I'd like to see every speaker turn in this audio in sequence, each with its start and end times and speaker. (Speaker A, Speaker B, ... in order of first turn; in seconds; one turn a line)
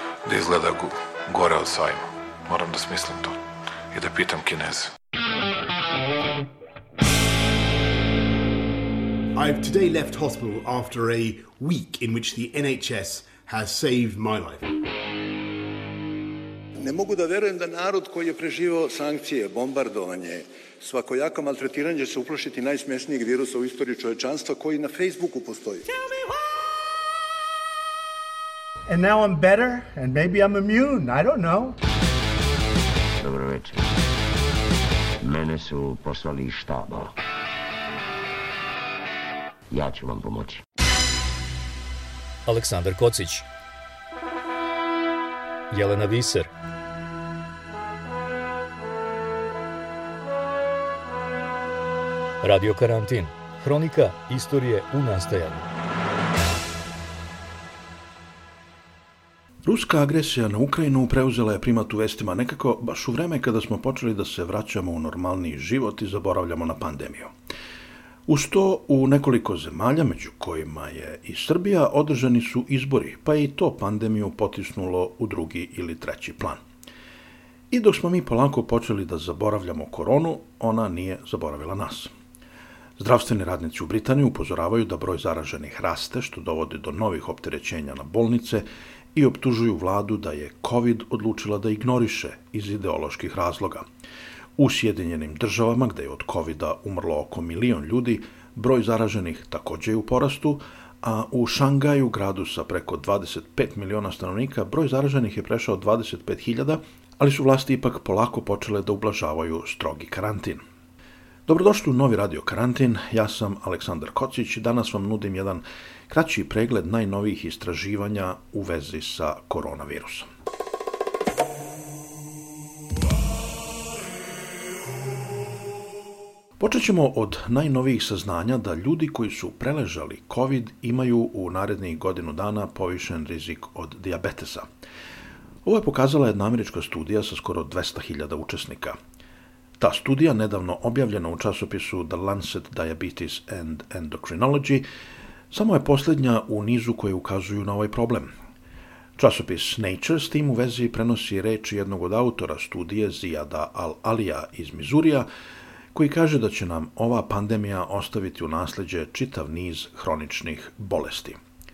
Speaker A: 0.2-3.4
Speaker A: 3.9-4.9
Speaker B: 9.3-14.7
Speaker C: 16.8-25.9
Speaker D: 28.9-31.8
Speaker E: 33.2-33.9
Speaker E: 35.2-37.1
Speaker E: 39.7-40.6
Speaker F: 42.5-43.5
Speaker F: 45.7-46.5
Speaker F: 52.4-55.7
Speaker G: 59.6-67.3
Speaker G: 68.3-76.6
Speaker G: 77.7-82.1
Speaker G: 83.0-93.8
Speaker G: 94.6-110.6
Speaker G: 111.5-120.3
Speaker G: 126.6-134.7
Speaker G: 135.6-139.0
Speaker G: 139.8-144.8
Speaker G: 145.5-148.3
Speaker G: 149.2-155.3
Speaker G: 155.9-161.4